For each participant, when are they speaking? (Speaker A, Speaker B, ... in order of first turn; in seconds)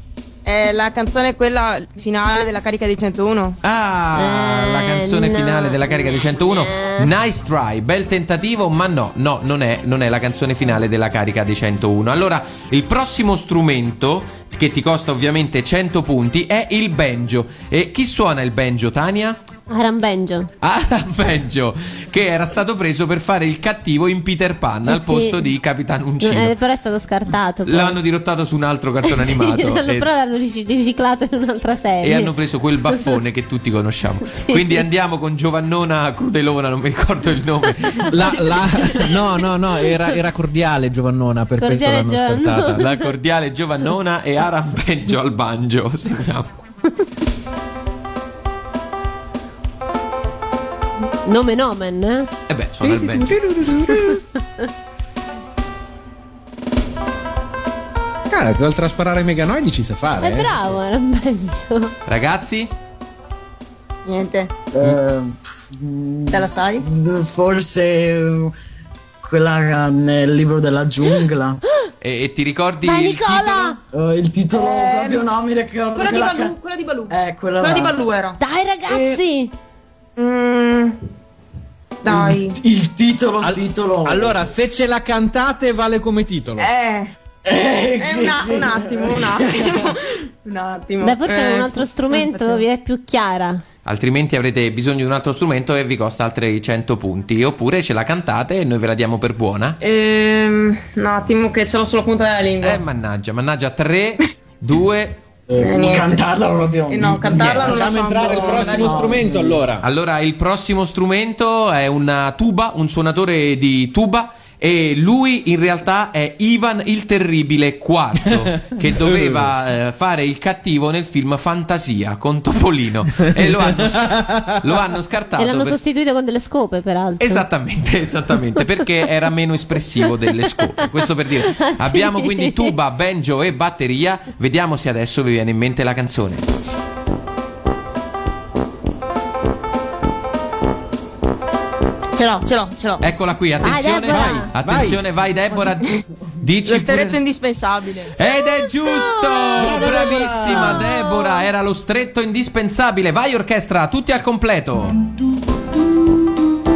Speaker A: 0.4-3.6, 64.0-64.5, 66.3-66.8, 74.5-75.3, 75.9-78.4, 80.2-81.0, 82.0-82.6, 86.6-87.1, 88.0-92.6, 99.8-102.8, 105.6-106.2, 106.9-109.2, 142.1-143.0, 146.6-148.2
Speaker B: 3.6-19.4, 20.6-26.5, 27.6-30.1, 32.0-38.1, 42.7-46.5, 52.5-53.3, 62.1-62.7, 72.0-73.8, 93.8-99.8, 102.6-105.2, 109.8-125.8, 127.2-136.5, 143.0-147.2, 148.2-154.9
Speaker C: 4.1-7.1, 19.7-20.5, 24.9-25.4, 26.2-28.0, 29.1-32.3, 34.3-34.8, 41.6-43.1, 51.2-52.3, 53.8-54.6, 60.2-61.9, 72.8-73.8, 78.4-79.5, 91.0-93.6, 125.4-127.4, 131.5-132.7, 143.6-144.5, 148.4-151.4
Speaker D: 38.1-42.9, 52.8-54.2, 58.3-60.6, 83.4-86.7, 107.5-109.8, 118.2-119.6, 123.2-124.8, 144.1-145.0, 149.6-150.8
Speaker E: 64.7-68.5, 69.2-71.6, 73.9-76.5, 77.1-78.0, 82.1-84.4, 87.4-89.9, 105.5-109.6